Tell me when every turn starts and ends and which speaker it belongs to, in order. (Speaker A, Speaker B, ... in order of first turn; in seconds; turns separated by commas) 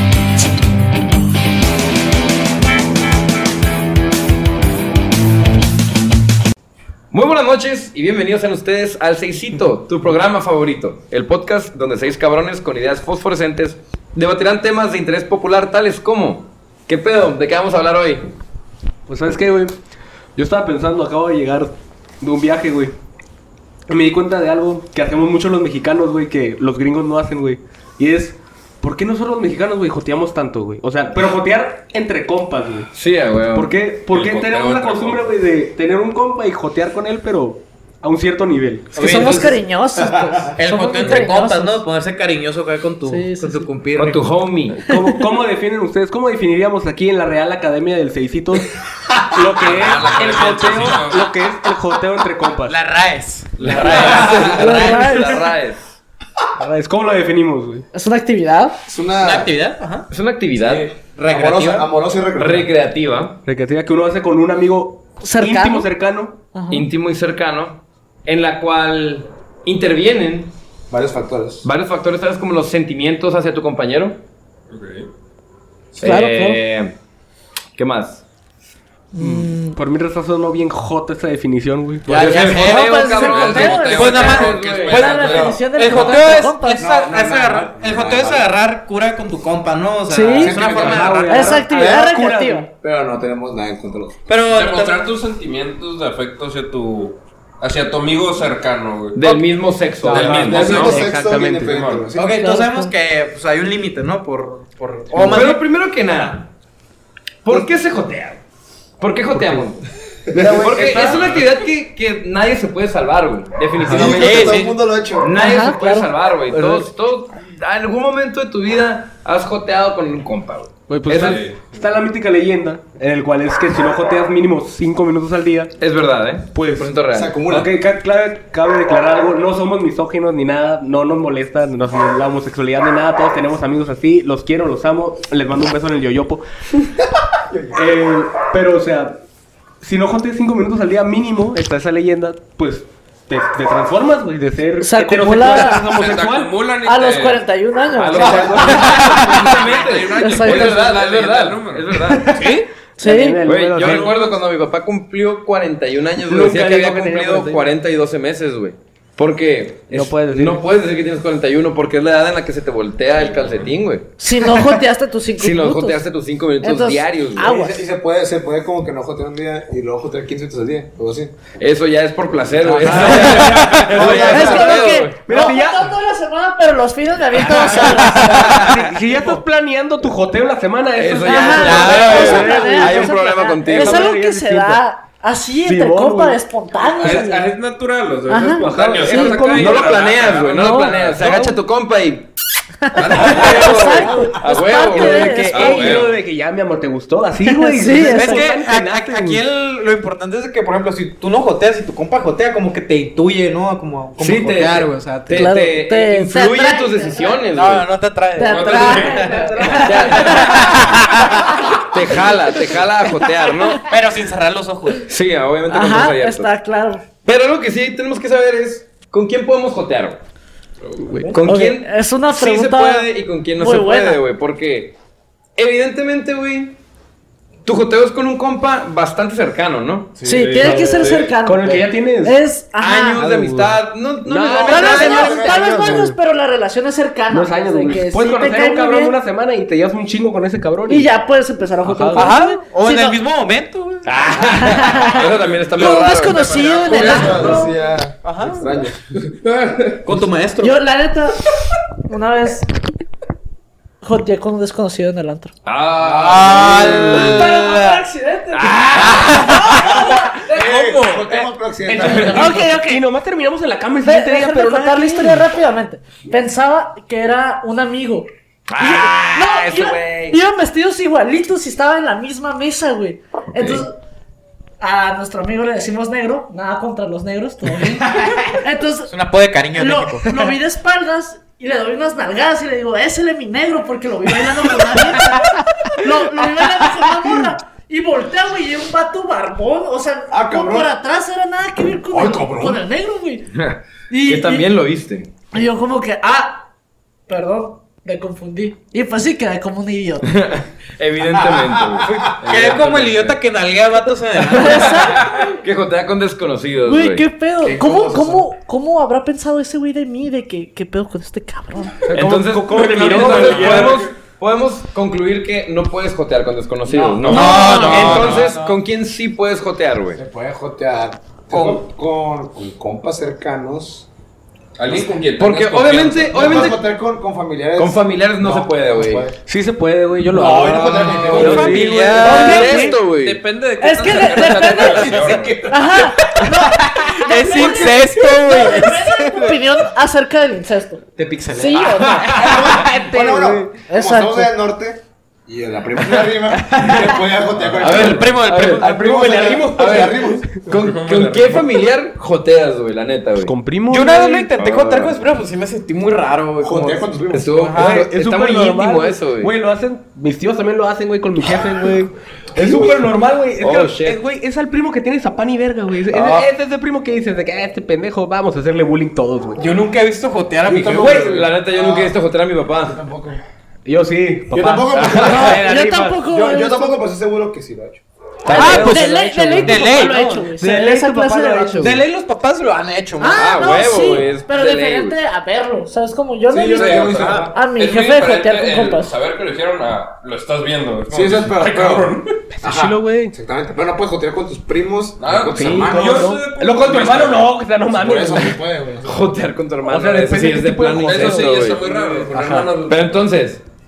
Speaker A: 7.1-18.2, Speaker B: 19.1-19.8, Speaker B: 20.4-22.9, Speaker B: 23.9-32.9, Speaker A: 32.9-33.7, Speaker B: 33.5-39.5, Speaker C: 34.1-35.2, Speaker D: 39.0-39.5, Speaker E: 39.0-41.8, Speaker F: 39.0-39.5, Speaker F: 40.0-40.5, Speaker D: 40.5-44.3, Speaker E: 43.0-43.7, Speaker A: 43.9-44.8, Speaker B: 44.8-48.7, Speaker E: 44.9-45.2, Speaker B: 49.3-52.8, Speaker C: 49.5-51.3, Speaker D: 50.1-51.1, Speaker D: 52.6-55.4, Speaker A: 53.6-55.8, Speaker C: 53.7-54.4, Speaker E: 54.5-55.4, Speaker B: 56.6-57.9, Speaker E: 57.9-58.8, Speaker F: 58.9-59.5, Speaker D: 59.2-60.0, Speaker A: 60.1-60.9, Speaker F: 60.6-62.7, Speaker D: 61.0-61.9, Speaker A: 62.3-63.4, Speaker B: 63.4-66.4, Speaker E: 65.2-65.9, Speaker E: 66.5-66.8, Speaker A: 66.7-70.5, Speaker F: 70.9-71.6, Speaker A: 71.6-74.2, Speaker C: 74.7-75.1, Speaker A: 75.9-76.9, Speaker E: 76.0-76.6, Speaker A: 77.8-78.2, Speaker E: 79.1-79.8, Speaker B: 79.2-82.2, Speaker A: 82.0-85.2, Speaker D: 82.1-83.1, Speaker C: 82.3-86.1, Speaker E: 82.4-86.9, Speaker D: 83.9-91.8, Speaker F: 85.3-85.6, Speaker F: 86.7-88.5, Speaker E: 90.1-90.6, Speaker F: 90.3-91.1, Speaker B: 90.4-92.7, Speaker C: 90.7-91.1, Speaker E: 91.2-92.7, Speaker F: 92.8-94.2, Speaker D: 94.3-95.1, Speaker C: 94.4-99.3, Speaker A: 99.1-101.0, Speaker B: 100.0-101.8, Speaker C: 100.1-102.1, Speaker F: 100.3-102.5, Speaker D: 102.1-106.4, Speaker E: 102.3-102.9, Speaker A: 105.1-106.5, Speaker A: 107.4-108.4, Speaker A: 109.0-109.8, Speaker B: 109.3-109.7, Speaker F: 110.3-110.9, Speaker D: 110.3-111.2, Speaker A: 110.5-121.5, Speaker C: 110.9-111.5, Speaker B: 113.8-114.1, Speaker F: 113.9-115.3, Speaker D: 114.2-114.7, Speaker E: 115.3-116.1, Speaker B: 116.5-116.9, Speaker B: 120.9-125.7, Speaker C: 121.1-121.7, Speaker A: 125.8-127.3, Speaker B: 126.5-136.4, Speaker F: 127.1-127.7, Speaker F: 137.5-137.8, Speaker B: 137.7-139.2, Speaker B: 139.8-146.6, Speaker E: 144.8-146.1, Speaker C: 145.5-152.0, Speaker E: 146.8-148.6, Speaker B: 148.1-149.4, Speaker A: 148.1-152.6, Speaker E: 150.1-150.7, Speaker B: 152.2-154.4, Speaker E: 153.0-153.4, Speaker A: 153.4-164.1, Speaker B: 156.2-157.7, Speaker B: 159.9-160.6, Speaker E: 164.2-166.0, Speaker A: 165.4-167.5, Speaker E: 166.6-167.8, Speaker F: 167.4-171.3, Speaker A: 171.6-175.4, Speaker B: 172.6-175.9, Speaker F: 172.8-174.9, Speaker D: 173.1-173.8, Speaker E: 174.2-178.6, Speaker B: 177.6-184.8, Speaker D: 178.1-179.3, Speaker A: 178.2-178.7, Speaker A: 180.9-184.1, Speaker E: 181.2-187.5, Speaker D: 181.6-182.5, Speaker B: 185.6-186.4, Speaker C: 187.0-191.4, Speaker E: 188.3-188.7, Speaker B: 188.6-190.0, Speaker A: 189.0-192.3, Speaker E: 190.5-190.9, Speaker B: 191.1-191.6, Speaker E: 192.8-195.9, Speaker C: 192.9-193.9, Speaker A: 192.9-196.1, Speaker B: 193.3-199.4, Speaker C: 195.5-196.1, Speaker E: 197.4-198.5, Speaker D: 197.9-205.5, Speaker A: 204.2-207.9, Speaker E: 205.3-207.4, Speaker D: 207.5-211.5, Speaker E: 208.3-211.5, Speaker C: 208.4-209.3, Speaker A: 209.6-211.0, Speaker A: 211.8-213.9, Speaker D: 213.8-215.1, Speaker A: 215.1-216.5, Speaker E: 215.7-217.0, Speaker A: 217.2-220.2, Speaker A: 221.3-224.9, Speaker E: 221.4-223.1, Speaker E: 223.6-224.2, Speaker A: 225.6-226.8, Speaker A: 227.6-230.1, Speaker E: 230.2-233.3, Speaker C: 230.3-231.3, Speaker B: 230.5-232.4, Speaker A: 232.8-235.5, Speaker B: 233.2-236.1, Speaker E: 234.6-239.2, Speaker F: 234.8-236.1, Speaker B: 237.3-241.1, Speaker E: 240.9-243.2, Speaker B: 241.8-242.4, Speaker D: 242.1-244.1, Speaker A: 244.0-246.7, Speaker E: 244.4-247.7, Speaker C: 246.1-247.7, Speaker F: 246.8-249.3, Speaker D: 248.2-248.7, Speaker C: 249.5-250.0, Speaker D: 250.0-250.8, Speaker E: 250.6-251.4, Speaker E: 252.1-252.7, Speaker E: 254.0-255.5, Speaker A: 255.6-257.6, Speaker D: 256.0-258.1, Speaker E: 257.1-260.3, Speaker B: 257.3-257.5, Speaker A: 258.5-259.9, Speaker B: 258.6-259.5, Speaker D: 258.9-261.3, Speaker F: 260.5-262.6, Speaker B: 260.6-261.1, Speaker B: 261.8-265.5, Speaker E: 262.2-263.0, Speaker E: 264.0-268.3, Speaker A: 268.7-270.4, Speaker E: 268.8-274.0, Speaker A: 273.6-273.8, Speaker E: 274.8-293.5, Speaker D: 277.7-280.5, Speaker D: 285.2-285.6, Speaker F: 290.3-290.9, Speaker F: 292.1-292.8, Speaker A: 293.5-295.3, Speaker E: 294.1-294.7, Speaker E: 295.5-296.6, Speaker E: 297.3-300.3, Speaker A: 300.3-303.3, Speaker F: 301.3-302.3, Speaker D: 302.1-305.2, Speaker E: 304.5-305.4, Speaker A: 304.7-307.3, Speaker E: 306.9-311.9, Speaker F: 307.6-308.5, Speaker B: 312.1-314.1, Speaker A: 312.1-320.2, Speaker C: 313.1-314.0, Speaker F: 313.3-314.1, Speaker C: 317.1-318.5, Speaker D: 317.3-318.7, Speaker E: 317.3-317.9, Speaker F: 317.9-318.5, Speaker F: 320.1-324.1, Speaker A: 321.5-321.8, Speaker C: 324.8-326.4, Speaker A: 325.4-326.8, Speaker F: 326.3-329.4, Speaker A: 327.8-329.3, Speaker B: 329.4-333.0, Speaker F: 330.3-331.9, Speaker A: 330.4-333.4, Speaker C: 331.2-331.4, Speaker D: 331.4-332.9, Speaker C: 332.2-335.6, Speaker E: 332.2-332.9, Speaker E: 333.8-335.1, Speaker A: 334.6-335.5, Speaker F: 334.8-336.1, Speaker E: 335.7-342.9, Speaker D: 336.5-339.6, Speaker B: 337.4-337.9, Speaker D: 341.1-342.5, Speaker F: 342.2-350.5, Speaker B: 342.7-343.7, Speaker E: 343.9-344.5, Speaker D: 346.5-347.2, Speaker C: 347.6-348.0, Speaker A: 347.8-353.5, Speaker D: 347.9-349.0, Speaker B: 348.6-350.6, Speaker C: 350.7-351.7, Speaker B: 353.4-354.6, Speaker D: 353.9-358.0, Speaker A: 354.6-355.1, Speaker F: 356.6-357.7, Speaker A: 357.3-359.5, Speaker B: 357.7-369.6, Speaker F: 362.5-363.0, Speaker A: 363.6-364.2, Speaker D: 369.6-371.4, Speaker A: 370.6-373.0, Speaker F: 370.7-372.1, Speaker F: 372.8-373.4, Speaker B: 373.8-376.2, Speaker F: 374.5-375.6, Speaker A: 374.9-375.6, Speaker E: 375.2-377.0, Speaker F: 376.2-378.0, Speaker A: 378.4-379.0, Speaker B: 378.5-379.9, Speaker E: 378.5-382.0, Speaker D: 378.5-380.5, Speaker B: 380.5-382.0, Speaker D: 381.8-383.6, Speaker E: 383.2-389.1, Speaker A: 383.3-385.2, Speaker F: 386.5-387.6, Speaker C: 386.7-392.4, Speaker D: 386.9-387.3, Speaker F: 391.1-396.3, Speaker B: 392.5-393.3, Speaker C: 395.2-397.5, Speaker B: 395.5-398.6, Speaker F: 397.9-399.2, Speaker A: 399.0-401.8, Speaker B: 399.8-402.8, Speaker C: 401.0-403.1, Speaker A: 402.9-403.6